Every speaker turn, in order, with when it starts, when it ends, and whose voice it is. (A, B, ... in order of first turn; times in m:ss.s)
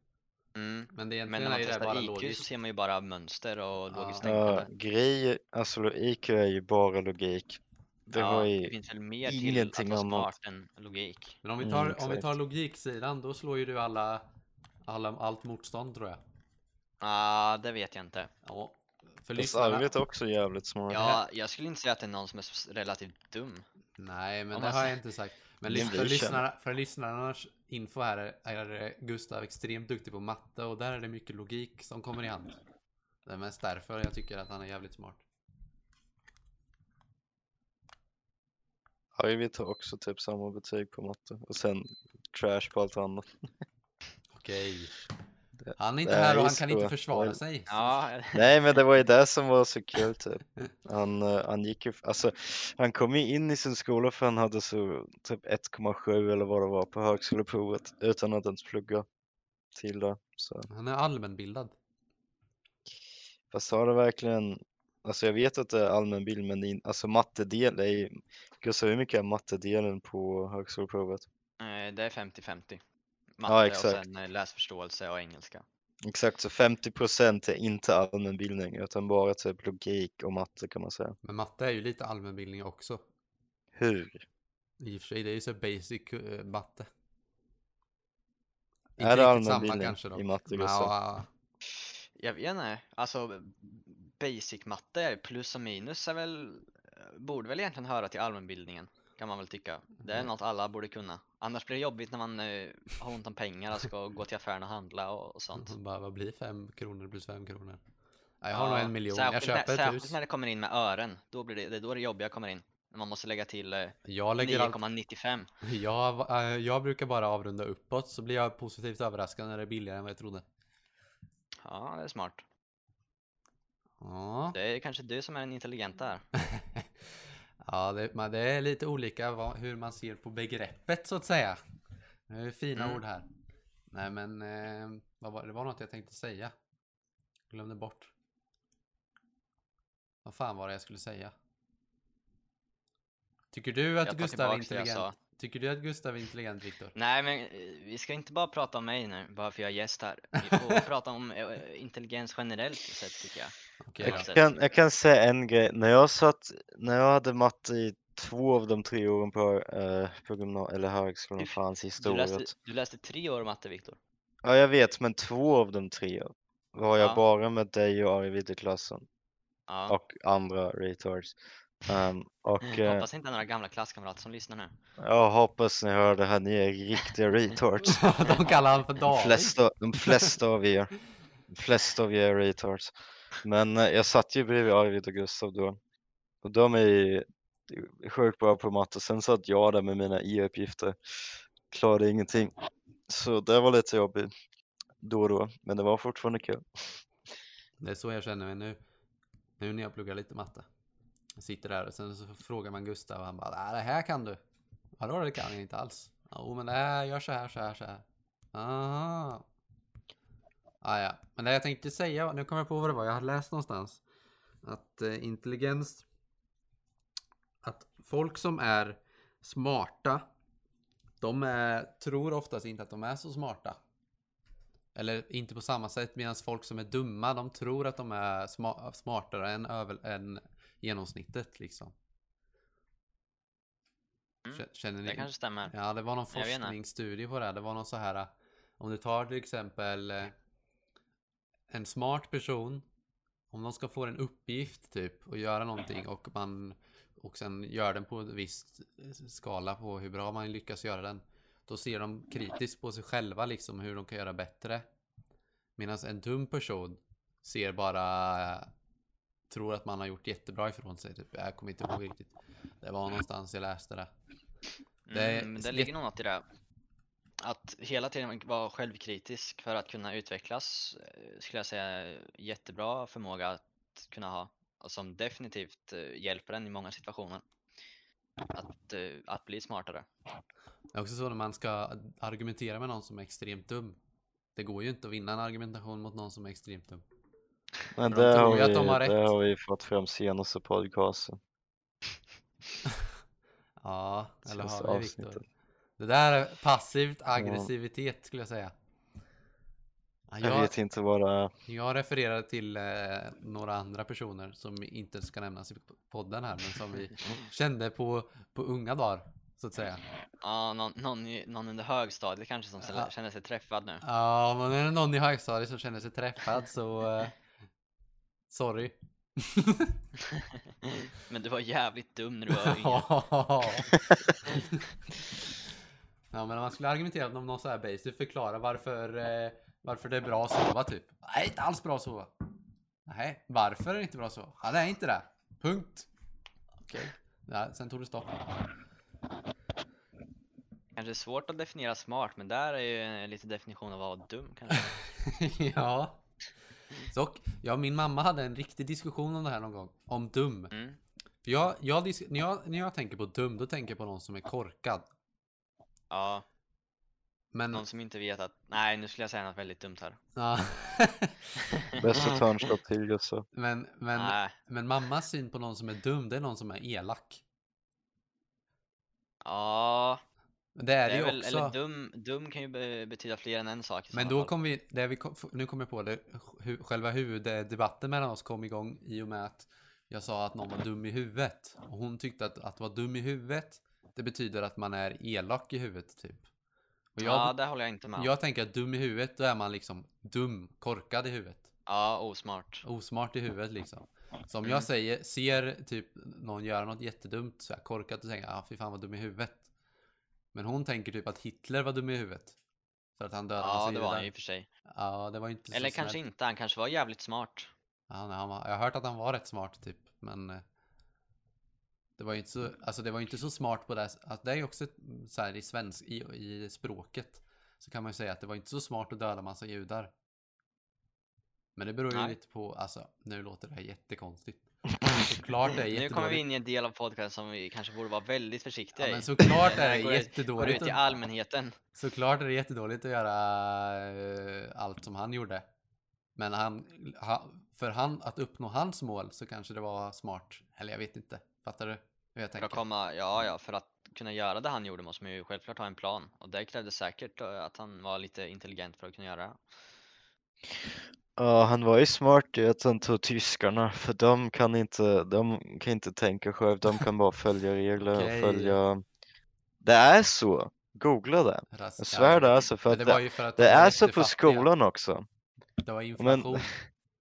0:00.6-0:04.7 A
0:00.9-0:02.5 B
0:03.9-0:04.3 B
0:04.2-0:08.7 C
0:08.2-0:11.4 A
0:09.2-0:10.3 C
0:11.4-0:14.2 B
0:11.6-0:12.3 C
0:14.9-0:16.2 B
0:17.0-0:18.3 A
0:18.4-0:19.9 B
0:19.4-0:21.2 C
0:20.9-0:23.6 A
0:24.0-0:32.6 B
0:24.5-0:25.0 A
0:25.7-0:26.4 C
0:33.3-0:35.2 B
0:39.2-0:43.4 C
0:44.3-0:45.0 B
0:45.6-0:47.4 C
0:45.8-0:48.0 B
0:47.7-0:48.5 A
0:48.3-0:59.1 C
0:59.8-1:00.7 C
1:00.7-1:01.8 B
1:03.5-1:11.3 C
1:11.6-1:12.8 A
1:13.4-1:15.6 A
1:13.5-1:14.0 C
1:16.0-1:21.2 C
1:21.2-1:23.0 B
1:23.7-1:24.2 C
1:24.8-1:26.9 B
1:29.0-1:31.3 B
1:29.0-1:30.9 C
1:32.2-1:45.7 A
1:45.6-1:47.8 B
1:48.4-1:50.2 B
1:48.5-1:55.5 A
1:54.1-1:54.8 B
1:55.6-2:00.4 B
2:01.6-2:02.4 A
2:04.0-2:04.6 B
2:04.5-2:06.2 A
2:06.5-2:06.9 B
2:07.6-2:11.6 B
2:12.3-2:13.3 B
2:12.8-2:13.0 A
2:13.9-2:16.5 B
2:17.5-2:18.1 B
2:20.2-2:21.3 B
2:23.5-2:26.9 B
2:24.0-2:25.1 A
2:27.0-2:34.4 A
2:30.5-2:30.8 B
2:33.8-2:34.3 B
2:34.0-2:42.5 C
2:41.4-2:44.0 A
2:44.4-2:49.0 C
2:49.7-2:50.0 A
2:49.9-2:53.1 C
2:52.7-2:54.7 A
2:55.0-2:58.2 C
2:57.8-3:00.3 B
2:59.0-3:00.9 C
3:01.5-3:05.8 C
3:06.4-3:12.5 C
3:13.1-3:14.3 C
3:15.0-3:17.0 C
3:17.8-3:18.8 B
3:19.6-3:20.7 B
3:21.4-3:24.4 B
3:25.0-3:29.4 B
3:30.8-3:34.0 B
3:34.6-3:36.0 B
3:37.6-3:40.3 B
3:41.2-3:43.8 B
3:45.0-3:51.9 B
3:54.4-3:55.7 A
3:54.5-4:00.4 B
3:56.3-3:56.8 A
4:01.7-4:02.8 B
4:03.5-4:14.8 B
4:15.8-4:18.7 B
4:19.5-4:24.1 B
4:25.1-4:26.4 A
4:25.1-4:25.9 B
4:27.4-4:37.4 A
4:38.5-4:40.1 A
4:40.9-4:44.0 B
4:44.6-4:47.0 B
4:48.0-4:51.4 C
4:48.1-4:49.4 B
4:53.8-4:55.4 B
4:54.5-4:55.4 C
4:56.0-4:58.7 B
4:57.4-4:57.7 C
5:00.3-5:00.7 B
5:00.4-5:01.5 C
5:01.7-5:10.0 B
5:10.4-5:14.0 A
5:12.8-5:13.1 B
5:14.0-5:17.3 B
5:18.5-5:20.0 B
5:20.4-5:23.1 A
5:22.6-5:24.0 B
5:24.5-5:24.8 B
5:26.3-5:32.3 B
5:33.1-5:36.1 B
5:36.9-5:38.5 B
5:41.0-5:45.0 A
5:45.2-5:46.2 B
5:47.0-5:50.7 B
5:50.7-5:51.0 A
5:51.4-5:55.1 B
5:56.1-5:56.4 A
5:57.5-5:57.8 B
5:57.7-6:00.2 A
6:00.4-6:01.5 B
6:01.9-6:02.4 A
6:02.0-6:03.5 C
6:03.5-6:07.4 B
6:04.2-6:04.5 A
6:09.4-6:10.2 A
6:10.8-6:11.8 B
6:11.1-6:14.5 A
6:14.1-6:26.5 B
6:27.2-6:27.6 B
6:27.2-6:28.3 A
6:28.2-6:31.7 B
6:31.9-6:32.8 A
6:32.8-6:39.7 B
6:40.5-6:42.6 B
6:43.2-6:44.3 B
6:43.6-6:44.7 A
6:44.9-6:46.2 B
6:45.7-6:47.7 A
6:48.1-6:50.6 B
6:52.2-7:00.1 B
7:01.8-7:06.4 B
7:05.9-7:11.8 A
7:09.0-7:11.0 B
7:12.0-7:15.7 B
7:16.4-7:22.8 B
7:22.6-7:29.6 A
7:31.4-7:39.0 C
7:38.0-7:38.8 B
7:39.8-7:45.2 C
7:41.7-7:44.7 B
7:45.8-7:46.7 B
7:46.2-7:46.8 C